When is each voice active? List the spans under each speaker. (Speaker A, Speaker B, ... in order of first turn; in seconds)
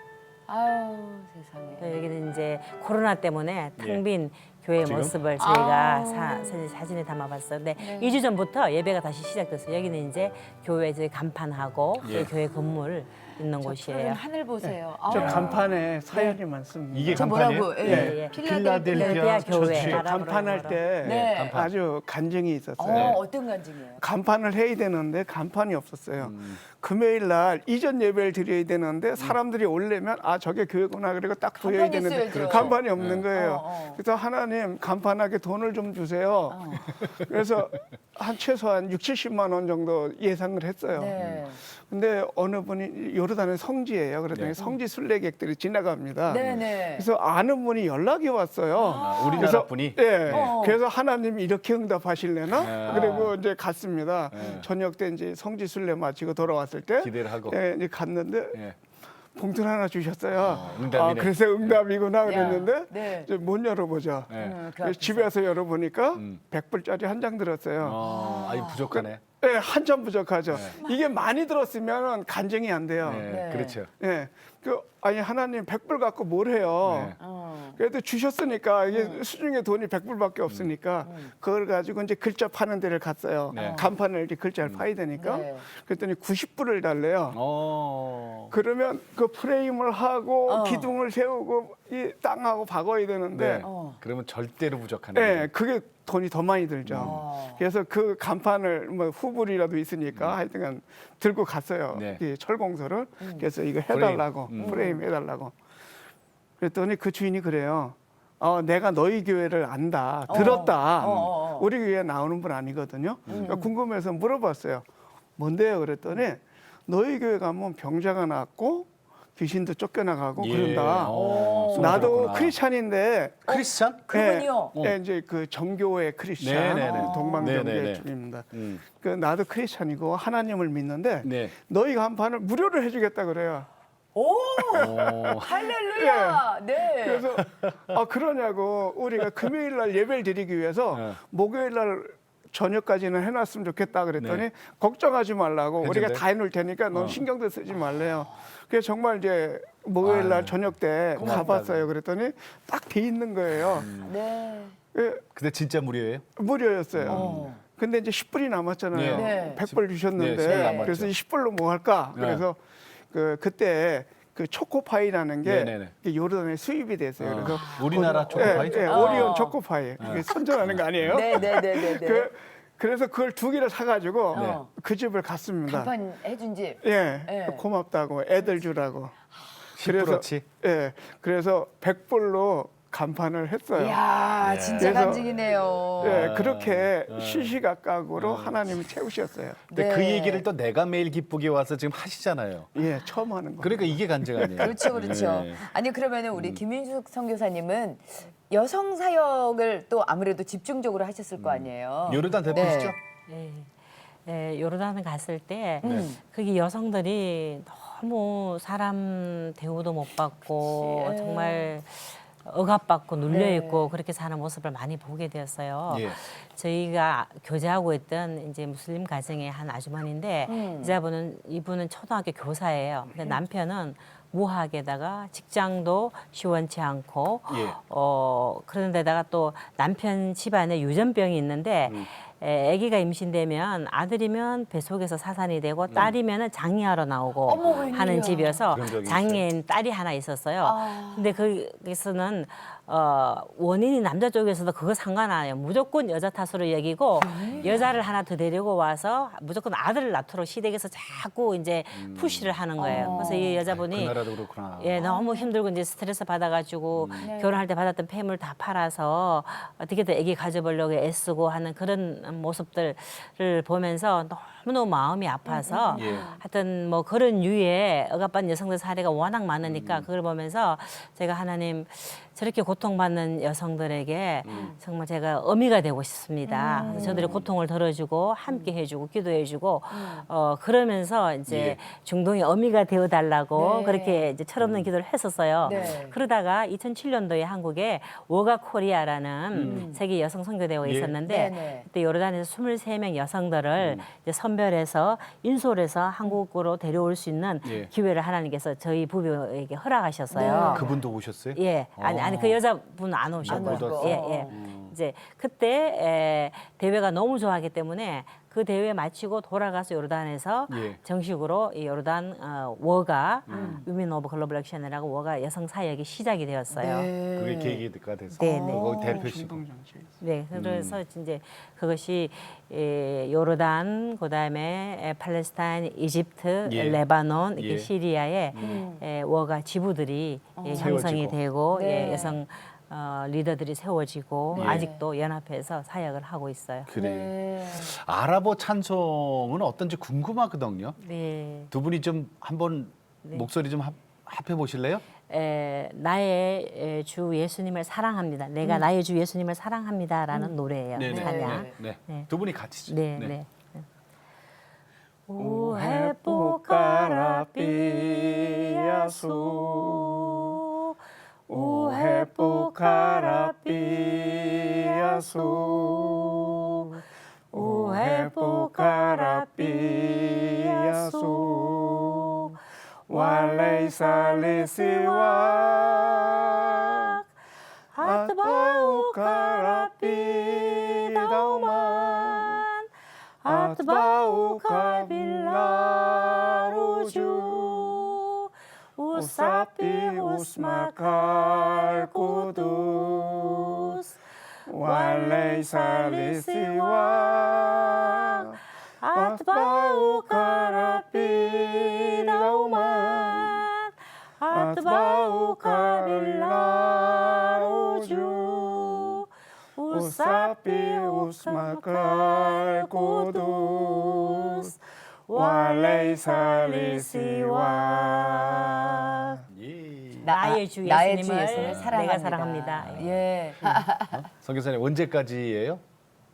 Speaker A: 0.5-2.1, 5.4-6.6, 7.8-8.2, 13.6-16.4, 17.1-19.9, 21.0-21.6, 22.8-24.0, 31.6-34.0, 36.5-36.9, 40.9-41.6, 46.3-47.1, 48.8-49.7, 50.3-50.8, 52.6-53.4, 54.4-54.6, 62.2-63.3, 64.3-65.3, 68.0-69.0, 70.8-71.2, 73.2-73.8, 77.2-77.8, 78.9-79.2, 81.0-81.3, 83.5-83.9, 85.1-85.7, 90.5-90.9, 93.6-94.0, 96.9-97.6, 103.2-103.5, 104.6-105.0, 110.3-111.7, 113.3-113.7, 121.1-122.2, 123.5-124.8, 126.7-127.6, 134.2-137.3, 151.2-151.6, 154.0-154.8, 157.1-157.6, 159.1-159.6, 160.4-161.0, 167.5-169.6, 171.0-172.3, 174.3-174.7, 175.7-177.7, 183.8-186.3, 189.7-190.4, 194.6-203.0, 205.8-206.2, 210.6-211.7, 213.3-213.9, 220.5-220.9, 237.5-238.6, 240.6-241.5, 247.2-247.9, 252.8-253.6, 255.0-255.5, 257.2-257.6, 265.5-266.4, 274.5-274.8, 276.5-277.4, 278.5-278.7, 279.9-280.3, 283.6-284.3, 285.6-286.2, 289.6-290.0, 291.3-291.9, 300.3-301.0, 303.5-304.5, 313.5-313.9, 316.7-317.8, 318.4-319.3, 328.6-329.0, 330.6-331.0, 331.7-332.4, 334.5-335.1, 337.0-338.0, 351.1-351.8, 420.2-424.2
Speaker B: 1.8-14.2, 17.9-18.4, 18.9-20.8, 203.3-300.9, 301.5-317.1, 318.4-318.9, 320.2-336.9, 341.0-341.7, 345.3-352.3, 352.9-353.9, 355.3-360.9, 361.5-366.8, 367.5-372.5, 373.1-377.2, 377.9-382.9, 383.4-394.1, 394.8-398.4, 399.0-409.2, 409.8-419.4, 420.3-423.1
Speaker C: 4.8-5.2, 12.0-12.3, 15.1-15.7, 16.9-20.1, 21.0-21.7, 22.9-23.2, 26.2-26.6, 32.3-33.3, 41.2-41.4, 49.0-50.5, 52.5-53.3, 54.3-54.7, 57.0-57.6, 60.4-62.6, 64.3-64.6, 66.2-66.4, 67.8-69.2, 70.5-70.8, 73.0-73.9, 76.8-77.2, 80.5-80.7, 83.5-83.9, 87.3-88.5, 93.3-95.5, 96.8-97.2, 100.1-100.4, 101.9-102.2, 103.9-104.9, 110.3-111.3, 113.3-113.6, 120.4-122.5, 123.5-124.1, 126.4-128.8, 131.2-131.6, 134.7-135.7, 137.4-137.8, 140.9-141.2, 144.2-144.5, 145.8-146.2, 146.9-147.2, 150.0-151.9, 153.5-154.2, 155.3-156.3, 156.9-157.5, 158.9-161.1, 162.2-162.4, 165.4-165.9, 167.2-169.4, 170.0-171.5, 174.3-174.6, 179.8-180.4, 184.4-185.2, 186.0-187.6, 188.2-188.8, 189.7-192.7, 193.6-195.6, 196.3-196.6, 201.4-203.0, 205.8-206.1, 215.9-216.2, 227.5-227.8, 235.9-236.2, 237.6-238.0, 238.7-239.5, 251.9-255.0, 256.9-257.3, 265.9-266.3, 269.6-270.1, 274.4-274.8, 276.8-277.5, 281.5-281.8, 284.6-284.9, 285.7-286.0, 289.5-289.9, 290.8-291.2, 293.8-294.1, 297.6-297.9, 300.4-302.6, 303.4-304.9, 310.7-311.0, 313.5-313.8, 317.4-319.6, 320.5-321.0, 326.7-327.0, 327.6-327.9, 328.5-328.9, 330.7-331.4, 334.6-334.9, 336.9-341.0, 341.7-345.0, 350.9-353.4, 419.5-420.3, 421.5-422.0, 422.8-425.8
Speaker D: 14.6-18.2, 19.7-23.2, 24.0-41.2, 41.7-58.6, 59.4-68.0, 68.9-73.3, 74.0-77.2, 77.8-87.4, 88.5-93.7, 95.2-105.5, 106.6-114.9, 115.4-123.5, 124.1-133.7, 134.6-136.4, 137.0-153.9, 154.9-155.2, 156.4-162.6, 163.1-175.9, 176.8-179.2, 179.8-184.0, 184.8-185.4, 186.0-189.6, 192.8-195.2, 319.0-320.1, 355.4-360.6, 361.5-367.0, 367.5-372.5, 373.1-377.2, 378.0-382.6, 383.4-388.0, 389.1-393.8, 394.7-398.6, 399.1-403.6, 404.5-409.1, 409.9-414.7, 415.3-419.4